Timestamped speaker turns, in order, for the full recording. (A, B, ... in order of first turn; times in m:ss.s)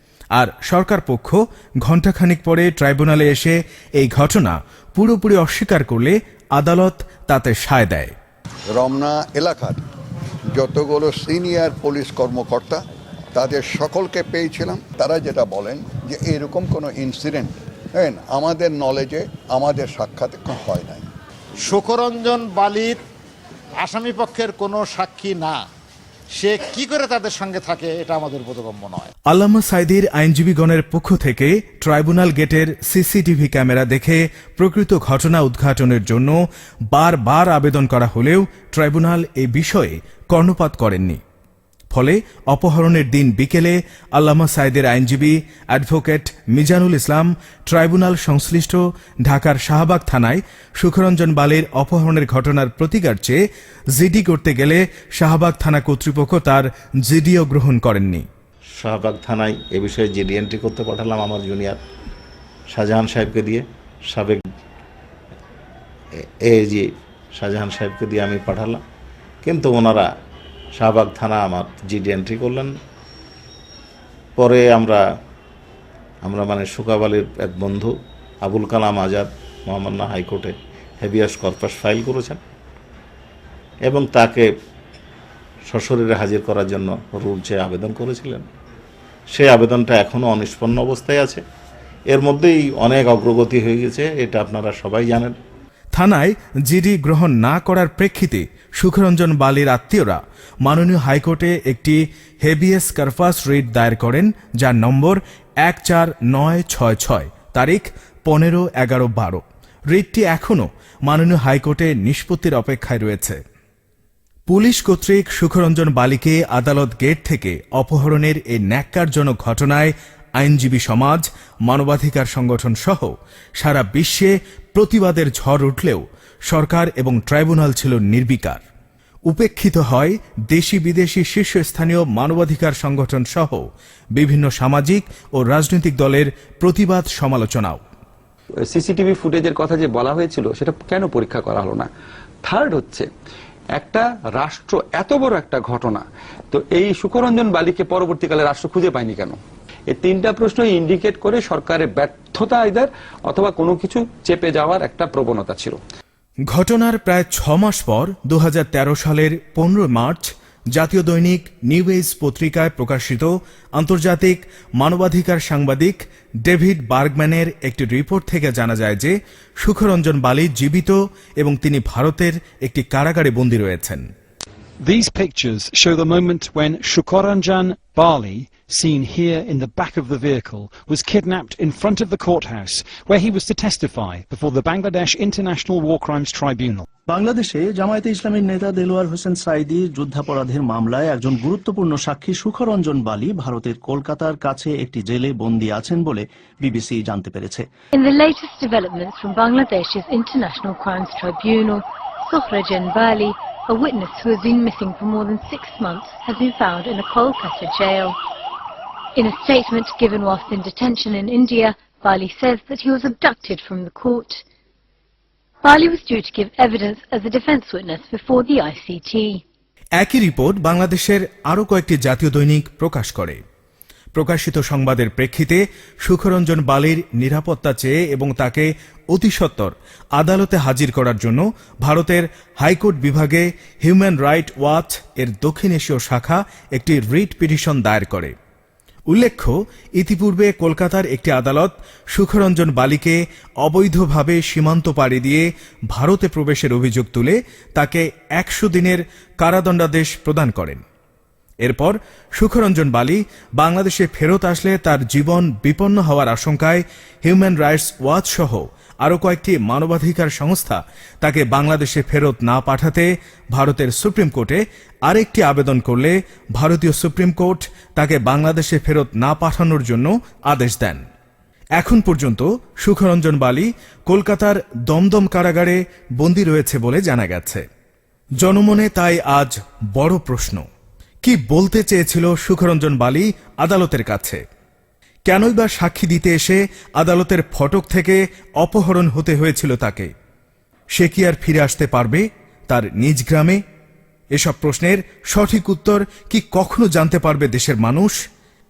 0:00.4-0:08.1 A
0:08.7-0:09.8 B
0:10.5-0:12.8 B
0:13.3-0:21.1 B
0:21.6-0:23.0 C
0:23.8-0:25.6 C
0:26.4-0:29.0 C
0:29.3-0:36.4 A
0:36.9-0:41.2 A
0:41.9-0:53.4 A
0:54.0-0:58.2 A
0:58.8-1:01.8 D
1:02.7-1:04.4 D
1:06.4-1:08.8 D
1:09.4-1:10.0 D
1:10.8-1:12.7 D
1:14.4-1:15.0 D
1:16.2-1:17.9 D
1:18.4-1:22.4 D
1:23.9-1:24.4 D
1:25.7-1:28.4 D
1:29.3-1:31.4 D
1:32.1-1:35.3 D
1:36.0-1:53.4 A
1:54.5-2:08.6 A
2:09.3-2:17.8 A
2:18.6-2:21.9 E
2:22.4-2:23.1 E
2:23.7-2:35.8 E
2:36.5-2:54.0 A
2:54.8-3:06.9 F
3:07.1-3:17.6 G
3:17.9-3:28.2 H
3:29.2-3:34.4 H
3:35.6-3:39.4 H
3:40.0-3:43.4 A
3:44.1-3:58.3 A
3:59.1-4:10.8 A
4:11.6-4:31.0 A
4:31.8-4:37.6 A
4:38.4-4:40.6 A
4:41.2-4:44.4 A
4:45.3-4:50.1 A
4:51.0-4:53.6 A
4:54.3-4:58.2 A